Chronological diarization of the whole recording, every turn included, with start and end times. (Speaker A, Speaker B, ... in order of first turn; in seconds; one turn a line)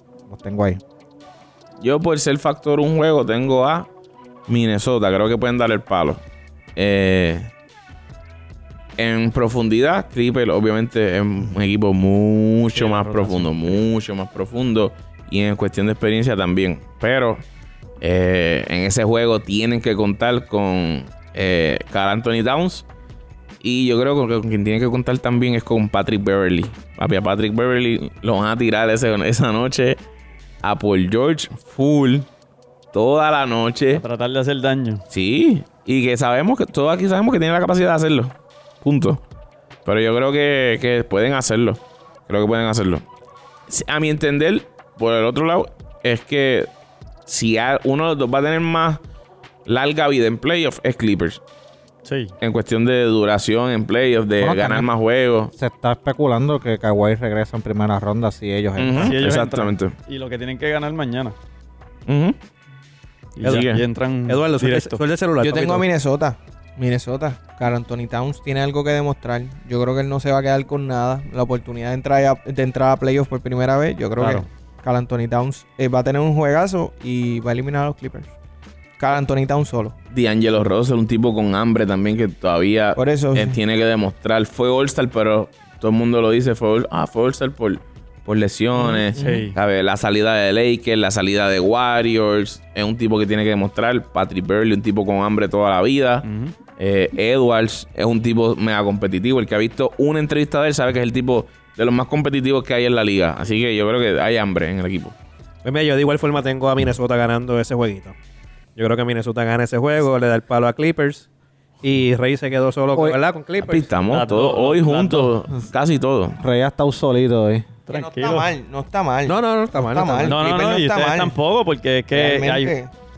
Speaker A: 0.3-0.8
Speaker B: 1.8-3.9
Speaker B: 4.5-6.2
Speaker B: 6.8-7.5
Speaker B: 9.0-17.4
Speaker C: 12.7-13.8
Speaker B: 18.0-22.9
Speaker B: 23.6-30.0
Speaker B: 30.6-32.3
Speaker B: 32.9-34.0
Speaker C: 33.9-35.0
Speaker B: 35.1-39.2
Speaker B: 39.8-43.0
Speaker B: 43.7-46.7
Speaker B: 47.3-49.0
Speaker B: 49.6-51.4
Speaker C: 52.0-52.3
Speaker B: 52.4-55.5
Speaker A: 54.4-54.9
Speaker A: 55.5-59.2
Speaker B: 58.8-59.9
Speaker C: 59.0-61.4
Speaker B: 62.1-62.4
Speaker C: 63.4-65.0
Speaker D: 63.4-63.7
Speaker B: 63.4-63.8
Speaker D: 64.3-65.9
Speaker E: 65.4-78.3
Speaker C: 74.2-74.5
Speaker E: 79.0-79.9
Speaker B: 80.1-96.2
Speaker E: 82.9-83.6
Speaker E: 88.8-89.4
Speaker C: 89.2-89.6
Speaker C: 96.2-96.5
Speaker B: 96.8-105.1
Speaker D: 105.6-108.2
Speaker D: 108.8-111.3
Speaker D: 111.8-113.9
Speaker B: 113.6-116.4
Speaker C: 114.1-115.3
Speaker A: 116.4-117.7
Speaker C: 117.9-118.5
Speaker E: 117.9-121.3
Speaker D: 119.2-120.4
Speaker C: 120.3-122.7
Speaker E: 122.1-122.9